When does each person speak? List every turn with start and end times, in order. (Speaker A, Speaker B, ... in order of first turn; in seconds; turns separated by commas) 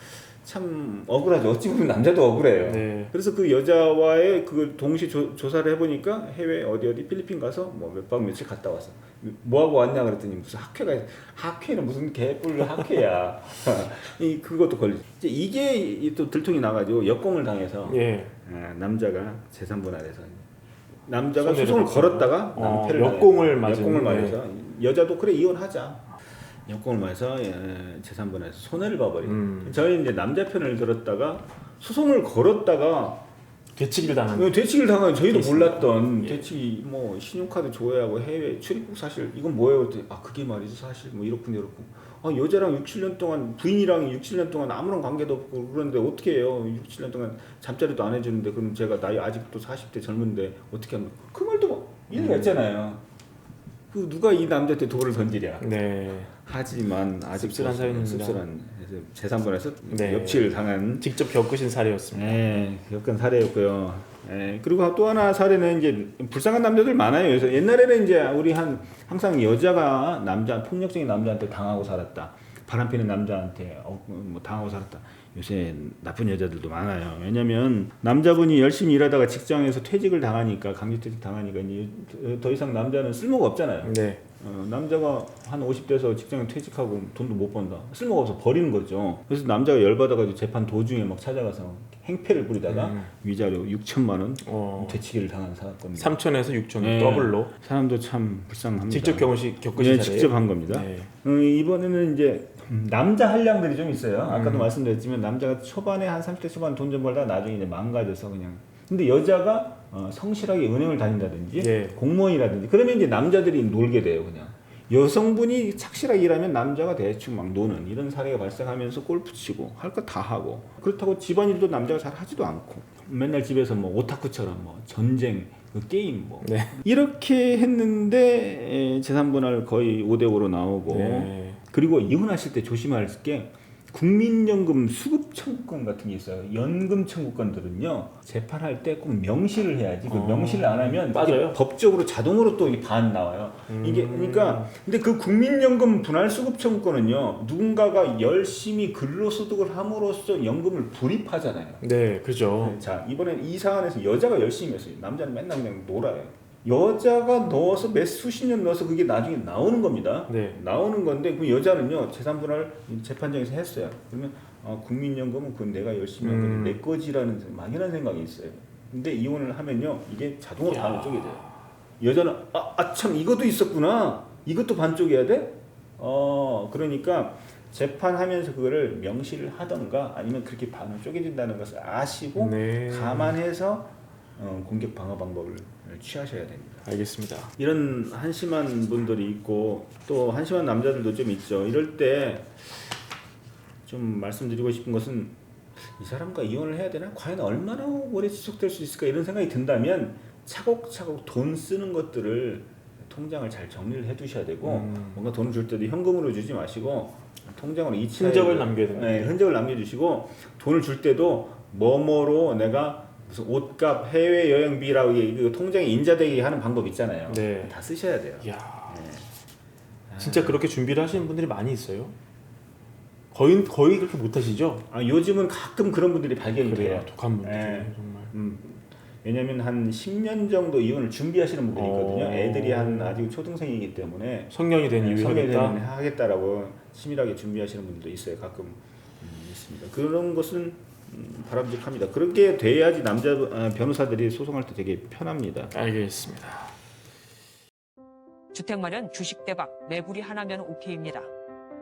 Speaker A: 0.4-20.4, Speaker B: 2.5-3.1, Speaker B: 17.9-18.3, Speaker A: 21.1-26.1, Speaker B: 21.4-24.4, Speaker A: 26.7-33.2, Speaker B: 29.2-29.8, Speaker B: 33.8-34.5, Speaker A: 34.3-53.0, Speaker B: 35.3-36.5, Speaker B: 52.1-52.6, Speaker A: 53.9-55.6, Speaker B: 55.6-56.3, Speaker A: 56.3-61.1, Speaker B: 57.4-58.4, Speaker B: 59.9-62.4, Speaker A: 62.1-96.2, Speaker B: 83.8-84.2, Speaker B: 92.7-93.1, Speaker B: 94.4-95.0, Speaker B: 96.0-97.5, Speaker A: 96.8-151.8, Speaker B: 98.9-101.1, Speaker B: 104.3-104.7, Speaker B: 111.6-112.0, Speaker B: 126.4-126.8, Speaker B: 130.9-131.6, Speaker B: 140.1-141.6, Speaker B: 143.7-144.7, Speaker B: 151.8-152.8, Speaker A: 152.6-171.5, Speaker B: 160.3-160.6, Speaker B: 166.2-166.8, Speaker B: 170.7-171.5, Speaker A: 172.0-186.8, Speaker B: 182.3-183.3, Speaker B: 186.8-187.5, Speaker A: 187.6-192.6, Speaker A: 193.9-219.2, Speaker B: 204.6-205.2, Speaker B: 208.2-209.3, Speaker B: 217.3-217.8, Speaker B: 218.4-219.0, Speaker A: 220.1-220.6, Speaker B: 220.2-222.1, Speaker B: 223.3-224.8, Speaker A: 224.9-245.7, Speaker B: 226.6-228.3, Speaker B: 231.7-233.2, Speaker B: 234.5-235.8, Speaker B: 245.7-246.7, Speaker C: 248.5-251.3